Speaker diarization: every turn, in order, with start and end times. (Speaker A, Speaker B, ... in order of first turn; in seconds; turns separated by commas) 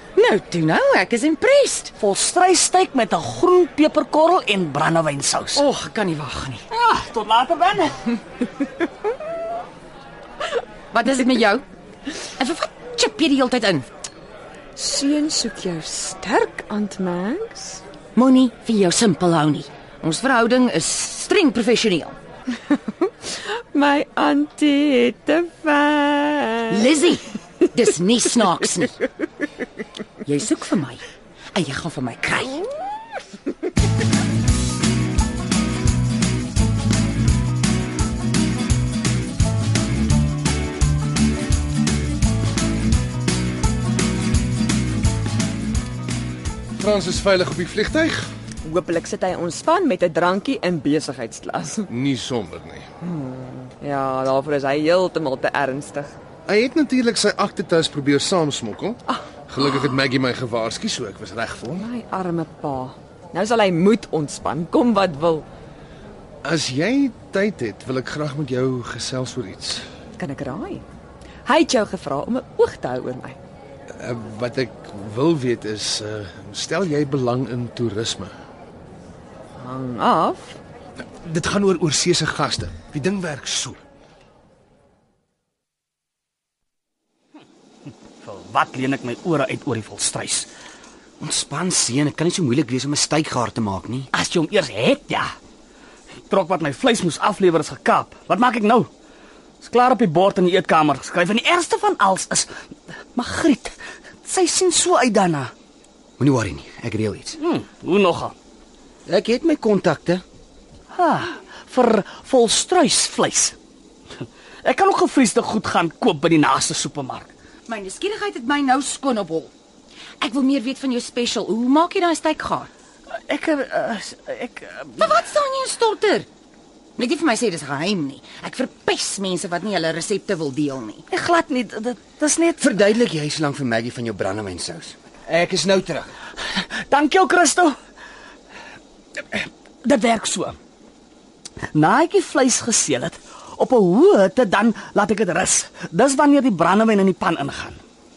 Speaker A: 0.2-1.9, Speaker B: 2.0-5.7, Speaker A: 5.5-6.6, Speaker B: 6.7-8.1, Speaker A: 10.9-11.6, Speaker A: 12.4-13.9, Speaker C: 14.8-17.8, Speaker A: 18.1-22.2, Speaker C: 23.0-26.8, Speaker A: 26.7-29.0, Speaker A: 30.2-32.6, Speaker D: 46.8-48.3, Speaker C: 48.6-51.9, Speaker D: 51.9-52.9, Speaker C: 53.0-56.1, Speaker D: 56.5-61.9, Speaker C: 61.8-65.5, Speaker D: 66.4-69.9, Speaker C: 70.2-70.8, Speaker C: 71.5-73.4, Speaker D: 74.0-78.3, Speaker C: 79.6-80.6, Speaker D: 81.2-83.8, Speaker B: 88.2-90.5, Speaker E: 91.2-94.1, Speaker B: 94.1-95.3, Speaker B: 96.3-98.9, Speaker B: 99.6-102.5, Speaker B: 103.2-103.8, Speaker B: 104.3-105.5, Speaker E: 106.2-107.4, Speaker B: 107.4-108.3, Speaker E: 109.1-110.2, Speaker B: 110.9-113.5, Speaker B: 114.6-117.3, Speaker A: 117.7-119.5, Speaker A: 120.2-122.7, Speaker B: 123.3-125.2, Speaker A: 125.0-126.3, Speaker A: 127.0-131.1, Speaker B: 131.1-132.7, Speaker E: 132.6-136.1, Speaker B: 136.5-137.8, Speaker B: 139.3-140.6, Speaker B: 141.7-147.8